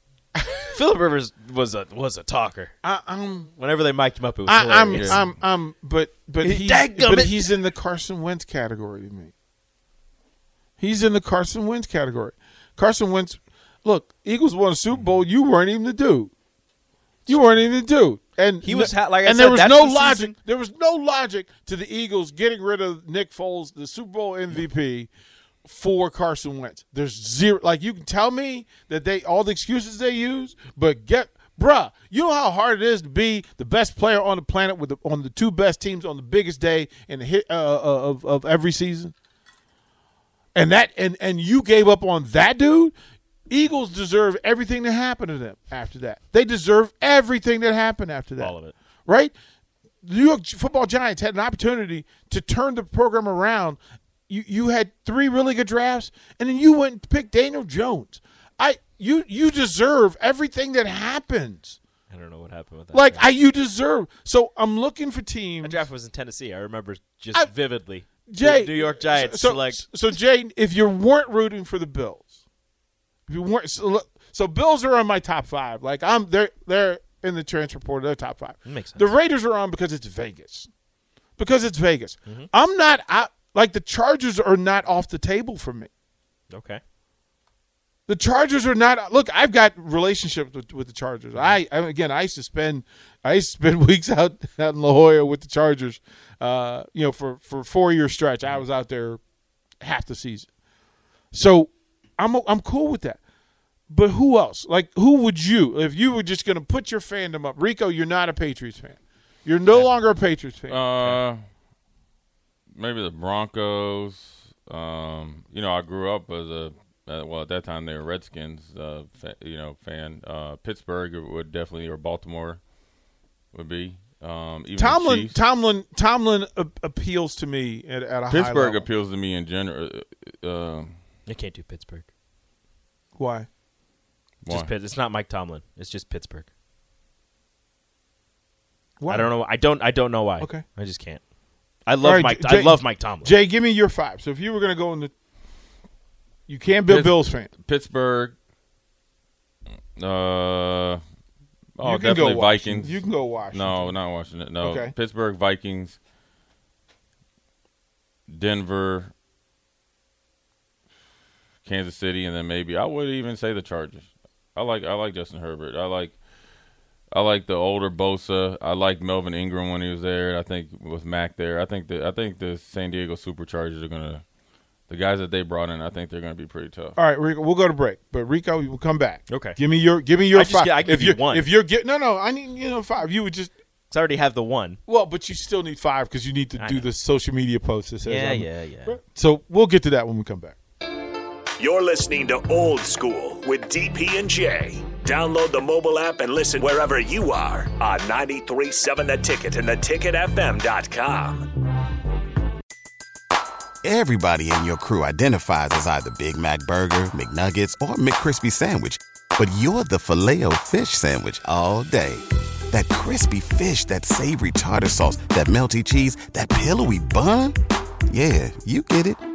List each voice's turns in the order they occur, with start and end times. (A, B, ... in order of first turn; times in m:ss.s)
0:00.4-0:00.8 A
0:00.7-0:02.7 B
0:02.8-0:03.5 A
0:03.6-0:05.2 B
0:04.5-0:09.3 A
0:04.9-0:05.2 C
0:06.4-0:07.5 B
0:10.8-0:16.3 A
0:17.3-0:25.1 A
0:18.6-0:20.4 B
0:25.6-0:39.1 A
0:40.6-0:42.9 A
0:43.5-0:48.6 A
0:48.4-0:48.8 B
0:49.1-0:49.3 A
0:50.0-1:01.8 A
1:02.1-1:03.3 B
1:02.9-1:05.8 A
1:05.6-1:09.8 B
1:08.3-1:12.3 A
1:13.3-1:20.7 A
1:18.6-1:19.1 B
1:21.4-1:25.9 A
1:26.5-1:26.8 B
1:28.1-1:39.2 A
1:39.8-1:40.5 A
1:41.3-1:43.2 A
1:43.9-1:50.8 A
1:50.7-1:51.4 C
1:52.8-2:02.6 C
2:03.5-2:05.4 C
2:04.8-2:08.9 A
2:08.3-2:10.9 C
2:11.3-2:12.1 B
2:13.2-2:13.5 A
2:14.4-2:14.7 C
2:14.5-2:16.5 B
2:19.0-2:19.3 A
2:19.1-2:21.2 B
2:21.9-2:23.3 B
2:22.0-2:25.1 A
2:26.5-2:27.5 A
2:26.9-2:28.4 C
2:30.0-2:31.0 C
2:31.8-2:36.0 C
2:31.8-2:33.9 A
2:34.6-2:34.9 A
2:38.3-2:39.1 C
2:41.6-2:46.2 C
2:47.1-2:54.2 C
2:54.9-2:57.0 C
2:57.0-3:03.5 A
2:59.3-2:59.6 B
3:00.3-3:01.5 B
3:03.9-3:04.8 B
3:04.9-3:10.6 A
3:06.6-3:06.9 B
3:08.0-3:09.0 B
3:11.6-3:21.5 D
3:23.8-3:37.6 E
3:38.1-3:39.2 E